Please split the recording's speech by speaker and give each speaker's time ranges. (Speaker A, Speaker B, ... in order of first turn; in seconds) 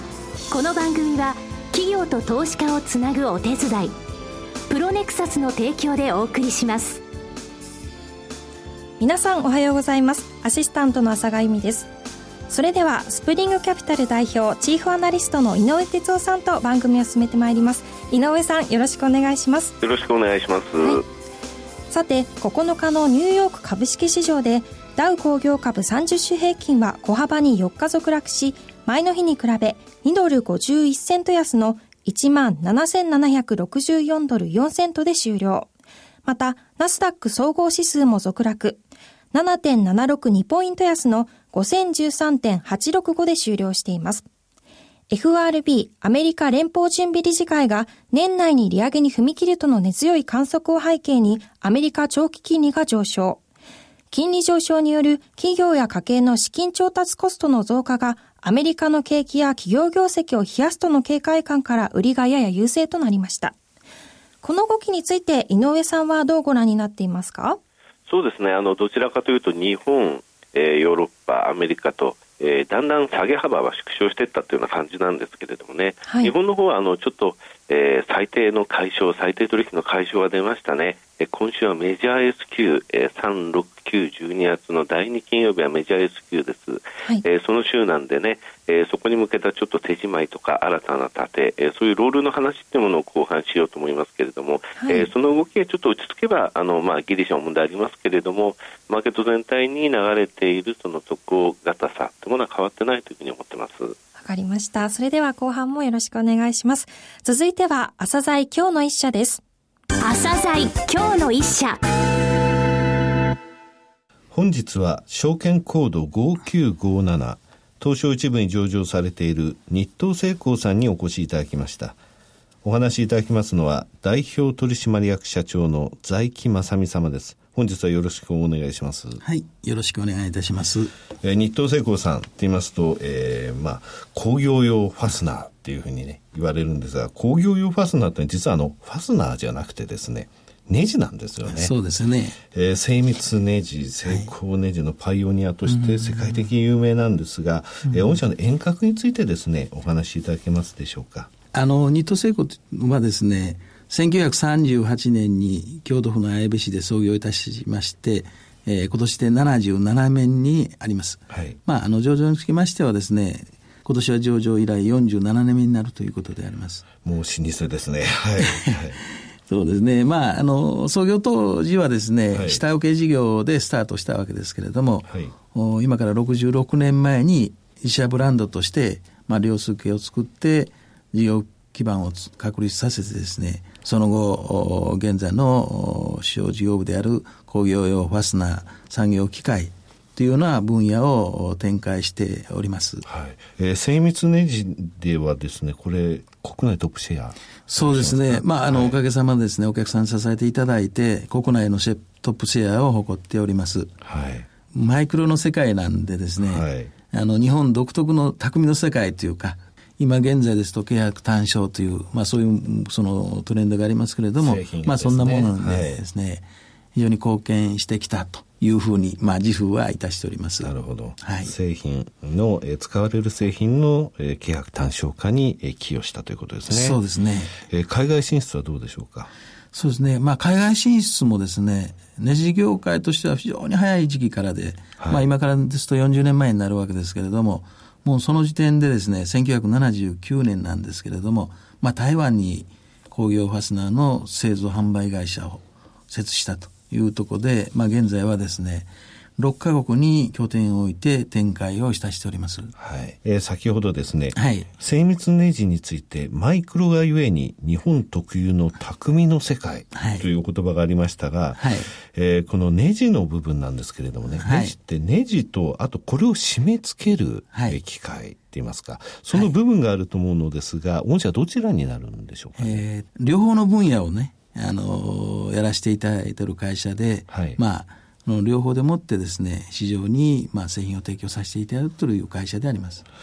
Speaker A: 0.5-3.9, 4.7-7.0, 110.0-111.8
Speaker B: 9.0-11.9, 12.5-19.7, 21.9-35.7, 36.2-38.8, 39.3-44.2, 45.1-53.4, 54.1-63.5, 64.4-67.6, 76.1-76.3, 94.8-95.1, 104.2-109.4
Speaker C: 19.8-21.0, 68.1-104.0
Speaker D: 114.3-122.0, 122.6-129.2, 131.2-141.7, 142.5-151.3, 161.3-161.6, 167.0-169.0, 172.3-172.6, 175.1-175.3, 193.0-199.0, 204.0-204.5, 206.4-206.9, 214.4-215.9, 220.6-227.0, 227.6-229.3, 235.0-235.2, 252.8-272.8, 277.3-277.6
Speaker E: 129.2-130.9, 141.4-142.4, 144.1-144.3, 145.7-146.5, 151.5-166.8, 168.4-193.1, 197.7-203.9, 204.7-221.5, 226.7-227.6, 229.7-252.7, 254.3-254.7, 259.9-260.3, 261.6-261.9, 264.3-264.8, 267.5-267.8, 272.6-283.1